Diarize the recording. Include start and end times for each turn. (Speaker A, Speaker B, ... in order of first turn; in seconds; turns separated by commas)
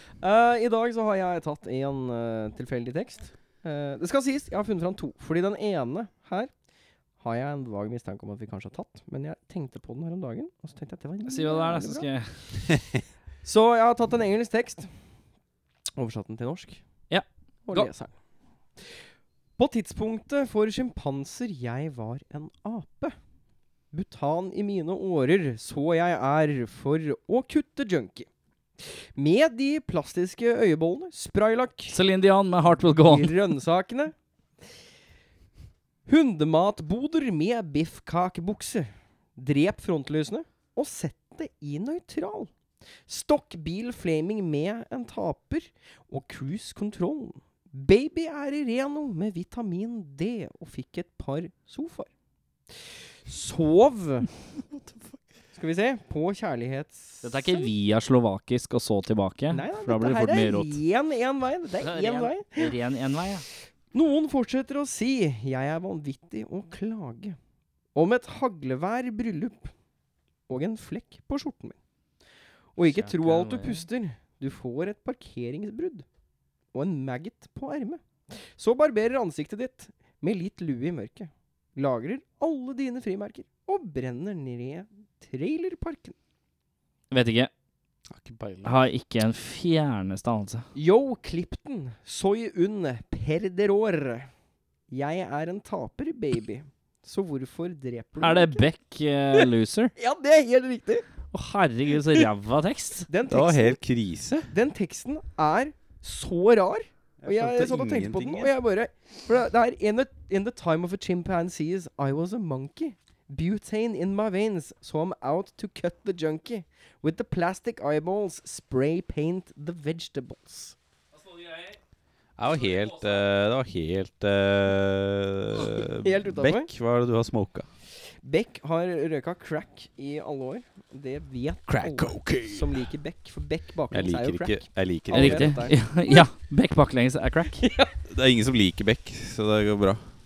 Speaker A: 0.2-6.5, Speaker A: 7.2-12.1, Speaker B: 11.3-12.4, Speaker A: 13.4-14.9, Speaker A: 16.0-16.8, Speaker B: 17.1-17.9, Speaker A: 17.7-18.1, Speaker A: 18.8-19.1, Speaker A: 19.6-23.1, Speaker A: 23.9-28.3, Speaker A: 28.8-31.9, Speaker B: 31.9-33.3, Speaker A: 32.9-34.1, Speaker A: 36.0-42.5, Speaker A: 43.1-52.1, Speaker A: 52.7-54.3, Speaker C: 54.7-55.2, Speaker A: 55.5-57.7, Speaker B: 57.2-60.8, Speaker A: 59.5-62.7, Speaker B: 61.8-63.5, Speaker A: 63.9-67.4, Speaker A: 67.9-69.7, Speaker A: 70.5-71.8, Speaker A: 72.7-76.0, Speaker B: 72.8-73.9, Speaker A: 76.7-86.2, Speaker B: 87.1-87.5, Speaker C: 88.1-88.8, Speaker B: 88.6-90.7, Speaker A: 90.7-94.3, Speaker A: 94.9-98.6, Speaker B: 98.2-99.9, Speaker A: 100.0-101.0, Speaker B: 101.3-103.1, Speaker A: 103.1-103.8, Speaker C: 103.3-104.5, Speaker A: 104.5-120.7, Speaker C: 107.2-108.5, Speaker B: 121.1-121.8, Speaker C: 122.4-127.7, Speaker B: 122.5-123.3, Speaker A: 126.0-126.7, Speaker A: 128.2-136.2, Speaker C: 131.7-132.7, Speaker C: 133.9-135.6, Speaker B: 135.1-137.6, Speaker A: 137.6-137.9, Speaker C: 138.1-140.1